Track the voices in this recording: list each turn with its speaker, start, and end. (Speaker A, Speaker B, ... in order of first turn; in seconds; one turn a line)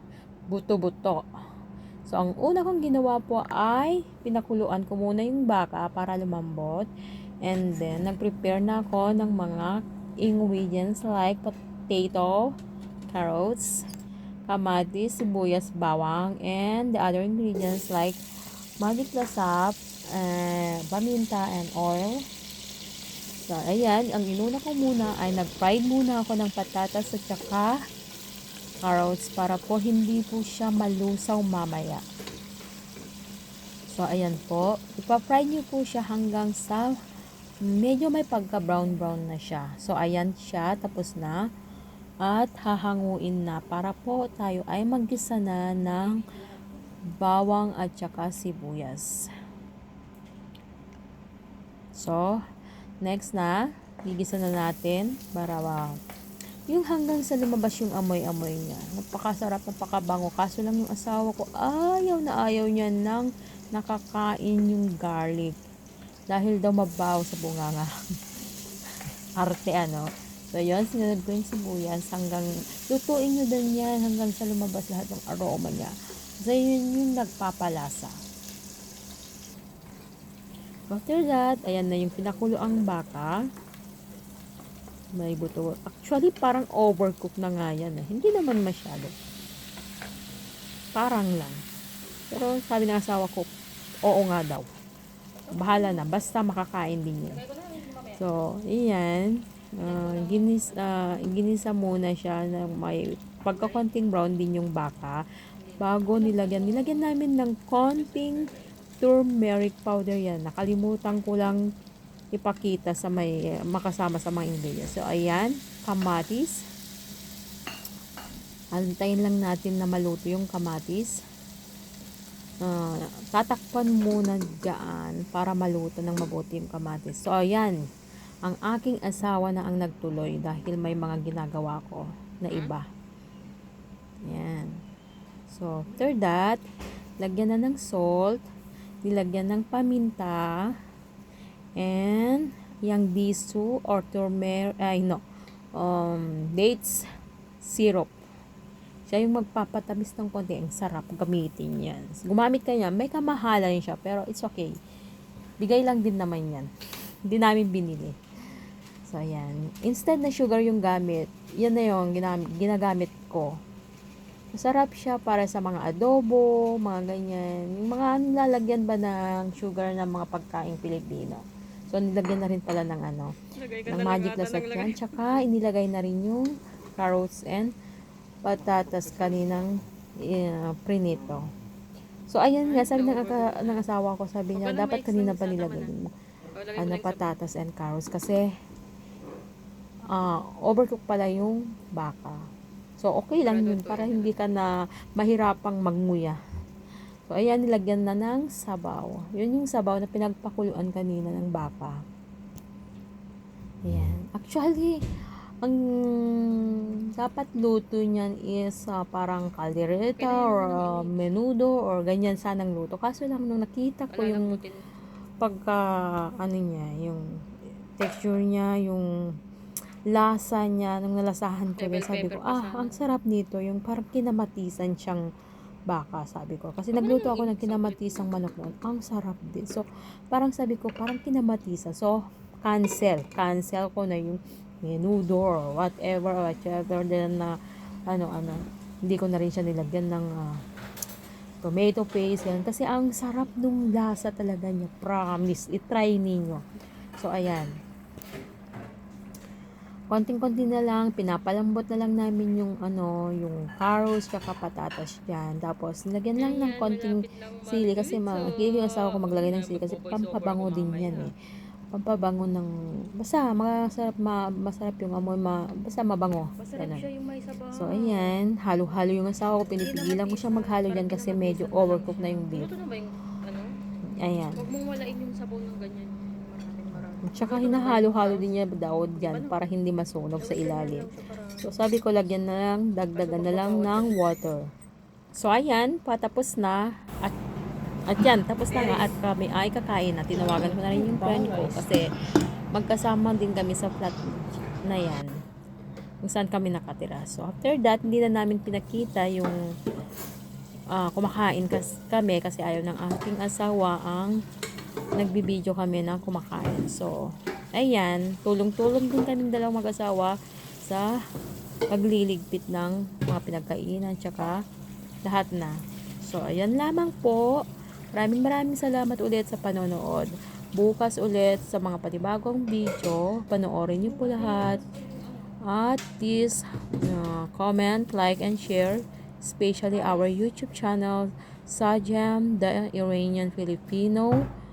Speaker A: 0.5-1.2
Speaker A: 2.1-6.9
Speaker A: 7.4-12.5
Speaker A: 13.1-13.8
Speaker A: 14.5-18.2
Speaker A: 18.8-22.2
Speaker A: 23.4-27.7
Speaker A: 28.8-32.0
Speaker A: 33.9-37.0
Speaker A: 37.6-41.4
Speaker A: 42.2-46.2
Speaker A: 47.2-49.1
Speaker A: 52.0-52.4
Speaker A: 53.0-55.9
Speaker A: 56.7-65.5
Speaker A: 66.3-67.9
Speaker A: 69.4-78.1
Speaker A: 80.9-83.4
Speaker A: 85.2-89.1
Speaker A: 91.0-91.6
Speaker A: 92.3-93.5
Speaker A: 94.0-94.7
Speaker B: 95.4-96.0
Speaker A: 95.6-97.4
Speaker B: 97.4-98.2
Speaker A: 98.1-105.2
Speaker B: 99.8-100.7
Speaker B: 105.7-107.0
Speaker A: 105.8-111.6
Speaker A: 112.3-116.6
Speaker A: 118.7-121.1
Speaker A: 122.6-127.8
Speaker A: 128.4-132.8
Speaker B: 132.5-132.8
Speaker A: 134.2-134.8
Speaker A: 135.5-136.6
Speaker A: 137.2-138.4
Speaker A: 139.0-140.5
Speaker A: 141.8-145.2
Speaker A: 145.8-147.0
Speaker A: 147.6-148.1
Speaker A: 149.1-154.7
Speaker A: 155.6-156.7
Speaker A: 157.3-158.2
Speaker A: 159.1-163.5
Speaker A: 164.5-173.3
Speaker B: 173.6-175.4
Speaker A: 173.9-177.7
Speaker A: 178.4-181.4
Speaker A: 182.3-186.1
Speaker B: 182.6-183.8
Speaker B: 184.5-185.9
Speaker B: 186.5-187.3
Speaker A: 186.8-188.4
Speaker A: 190.1-192.4
Speaker A: 193.0-196.4
Speaker B: 193.4-194.4
Speaker A: 197.3-202.0
Speaker A: 203.8-205.0
Speaker A: 205.6-214.5
Speaker B: 210.2-211.1
Speaker B: 214.1-214.8
Speaker A: 215.4-215.8
Speaker A: 216.4-217.2
Speaker A: 218.0-219.0
Speaker A: 220.1-225.2
Speaker B: 221.8-222.9
Speaker A: 225.9-237.5
Speaker B: 226.9-228.3
Speaker A: 238.1-240.6
Speaker A: 241.6-246.6
Speaker A: 247.2-247.7
Speaker A: 250.1-261.3
Speaker B: 256.4-261.3
Speaker A: 261.9-267.0
Speaker B: 266.6-268.4
Speaker A: 267.7-272.7
Speaker B: 269.8-273.7
Speaker A: 274.2-274.6
Speaker B: 274.6-278.5
Speaker A: 277.2-281.1
Speaker B: 279.1-279.5
Speaker B: 280.4-281.6
Speaker A: 281.6-284.6
Speaker B: 283.1-284.1
Speaker A: 285.4-287.3
Speaker A: 288.1-292.1
Speaker B: 288.7-289.1
Speaker B: 290.3-291.9
Speaker A: 292.7-295.3
Speaker A: 296.2-299.6
Speaker A: 300.9-304.4
Speaker A: 305.2-307.2
Speaker A: 307.7-311.1
Speaker A: 311.9-314.6
Speaker A: 315.2-317.6
Speaker A: 318.1-324.9
Speaker A: 325.6-334.4